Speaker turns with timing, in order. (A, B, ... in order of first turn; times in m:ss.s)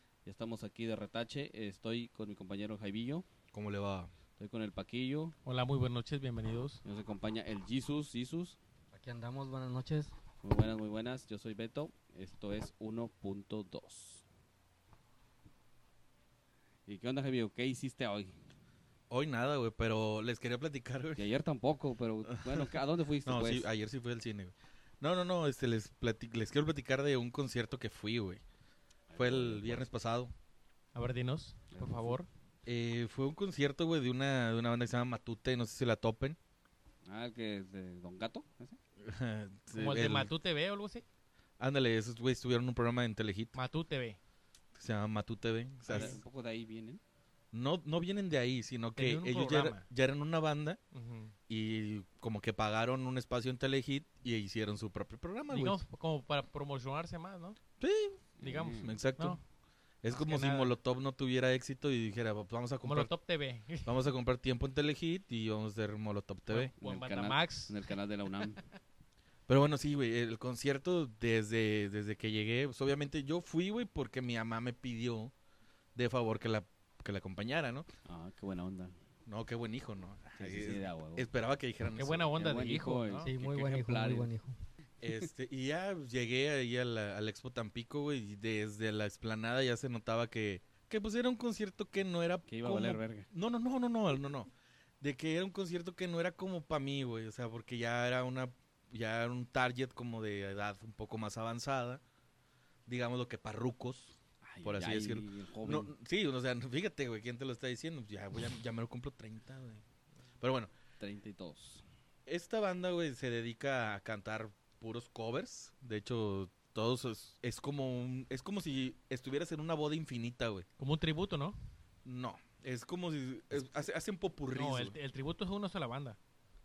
0:00.2-0:03.2 A
0:03.5-0:04.1 B
0:04.4-0:05.3 A
0:05.4-0:06.8 C
0:06.8-0:08.6 A
0:08.9-0:10.1 D
0:10.4-0:14.2 A
0:16.9-0:18.4 A
0:19.1-0:21.2 B
0:21.2-0:23.7 A
0:22.3-0:28.4 B
0:29.1-0:29.9 A
0:29.2-0:30.3 B
0:30.9-0:32.3 C
0:31.7-0:32.2 A
0:32.6-0:36.4 B
0:37.0-0:38.8 A
0:39.0-0:40.3 B
0:39.7-0:41.0 C
0:41.6-0:43.5 B
0:43.5-0:44.2 C
0:44.7-0:46.2 B
0:45.9-0:47.0 A
0:45.9-0:46.2 C
0:47.5-0:50.8 B
0:49.0-0:49.9 C
0:50.9-0:51.3 C
0:51.5-0:55.8 B
0:55.5-0:57.6 C
0:57.8-0:59.4 B
0:58.4-0:59.0 A
0:58.4-0:59.4 C
1:00.0-1:03.1 B
1:00.1-1:00.7 C
1:02.8-1:03.9 C
1:03.8-1:06.7 B
1:06.5-1:07.9 C
1:06.8-1:08.7 A
1:09.5-1:15.3 B
1:15.9-1:17.9 B
1:18.0-1:19.0 A
1:19.2-1:22.3 B
1:20.4-1:21.3 A
1:22.0-1:23.3 C
1:22.3-1:24.3 A
1:23.2-1:24.5 D
1:25.0-1:34.5 B
1:32.5-1:33.3 A
1:35.0-1:42.0 B
1:42.8-1:49.8 B
1:44.4-1:45.9 A
1:50.4-1:50.7 B
1:51.0-1:51.8 A
1:52.3-2:00.6 B
2:00.8-2:01.6 C
2:02.0-2:05.0 B
2:04.5-2:06.2 C